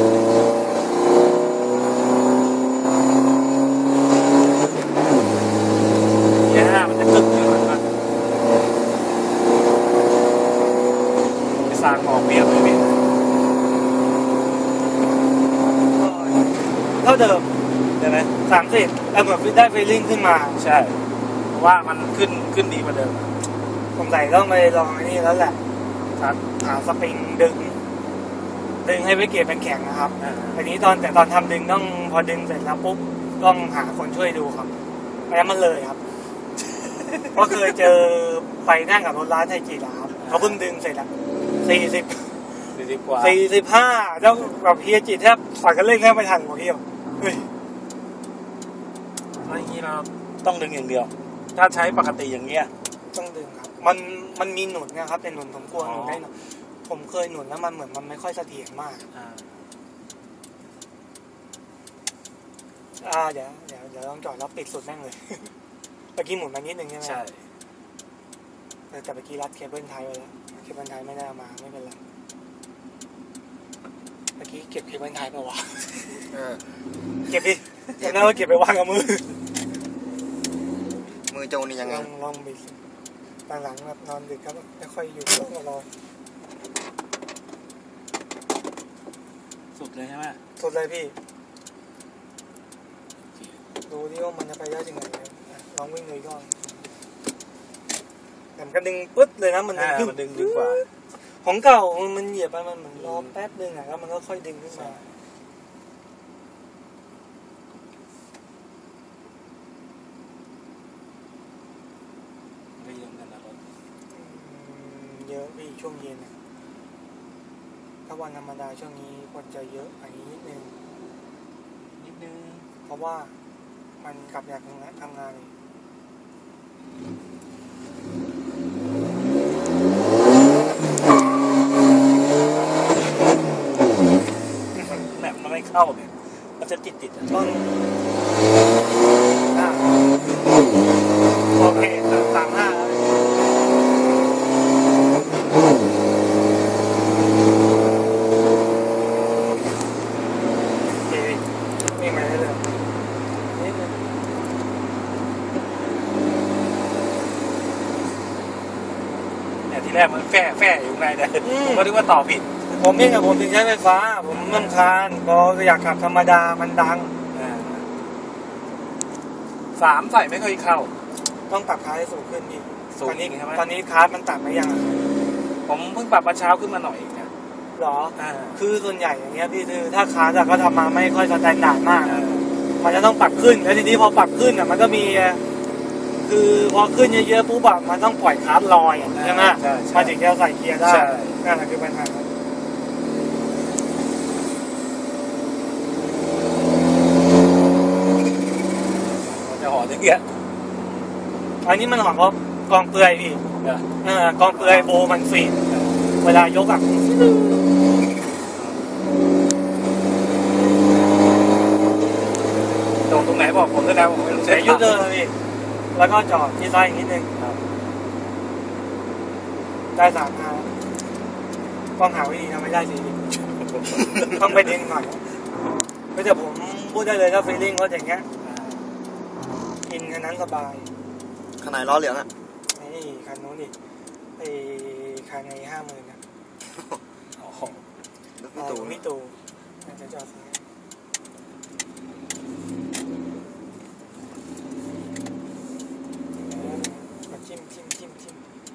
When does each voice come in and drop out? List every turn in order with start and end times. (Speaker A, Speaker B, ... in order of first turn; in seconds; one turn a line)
Speaker A: 6.4-7.8
Speaker A: 11.6-13.0
Speaker B: 15.9-17.5
Speaker A: 18.0-18.3
Speaker B: 18.4-20.6
Speaker A: 20.6-21.0
Speaker A: 21.5-23.3
Speaker B: 23.9-25.6
Speaker B: 26.5-27.8
Speaker B: 28.8-34.7
Speaker A: 30.2-30.6
Speaker B: 35.3-36.0
Speaker A: 37.0-37.3
Speaker B: 37.3-42.5
Speaker A: 40.2-40.6
Speaker A: 42.7-43.4
Speaker B: 43.2-47.5
Speaker A: 49.4-52.7
Speaker B: 53.1-59.0
Speaker A: 55.8-56.3
Speaker A: 59.1-59.6
Speaker B: 63.0-65.5
Speaker B: 66.1-67.2
Speaker A: 67.0-67.5
Speaker B: 68.9-72.0
Speaker B: 74.4-76.2
Speaker C: 76.3-76.6
Speaker B: 77.3-79.4
Speaker C: 81.3-82.1
Speaker B: 81.8-82.8
Speaker B: 83.5-85.9
Speaker A: 89.7-90.4
Speaker B: 90.6-91.2
Speaker A: 93.3-93.6
Speaker B: 93.9-96.6
Speaker B: 98.5-105.0
Speaker A: 99.7-100.8
Speaker A: 103.0-103.3
Speaker A: 104.7-105.0
Speaker A: 112.8-113.6
Speaker B: 114.1-116.3
Speaker B: 118.0-120.7
Speaker A: 121.9-122.7
Speaker B: 122.8-123.3
Speaker B: 124.0-125.5
Speaker A: 132.5-132.9
Speaker B: 134.7-135.1
Speaker A: 134.9-137.3
Speaker B: 137.3-137.8
Speaker B: 139.5-140.0
Speaker B: 141.5-143.1
Speaker A: 141.5-142.3
Speaker B: 150.9-152.7
Speaker B: 153.5-154.0
Speaker A: 159.7-162.5
Speaker B: 161.4-161.9
Speaker B: 162.8-167.1
Speaker A: 164.3-164.8
Speaker A: 167.3-167.9
Speaker A: 169.7-170.9
Speaker B: 171.5-175.1
Speaker A: 172.9-173.6
Speaker A: 175.7-177.3
Speaker B: 177.7-182.2
Speaker A: 178.2-178.6
Speaker A: 182.0-182.5
Speaker B: 182.8-185.4
Speaker B: 186.2-192.3
Speaker A: 189.1-190.1
Speaker A: 190.8-191.4
Speaker A: 199.1-200.3
Speaker B: 201.6-203.4
Speaker A: 203.6-203.9
Speaker B: 204.0-205.6
Speaker A: 204.5-205.0
Speaker A: 205.7-206.1
Speaker B: 206.2-207.7
Speaker A: 208.5-208.9
Speaker A: 213.0-215.1
Speaker B: 214.3-215.3
Speaker B: 215.9-217.3
Speaker A: 217.4-217.6
Speaker B: 219.9-220.7
Speaker B: 222.0-223.2
Speaker A: 223.7-224.4
Speaker B: 224.2-225.2
Speaker B: 226.1-228.3
Speaker A: 228.4-228.9
Speaker B: 229.8-230.9
Speaker C: 231.6-232.3
Speaker B: 232.7-233.7
Speaker B: 234.4-236.2
Speaker A: 237.4-237.8
Speaker C: 238.3-239.1
Speaker B: 238.6-240.6
Speaker B: 246.5-248.4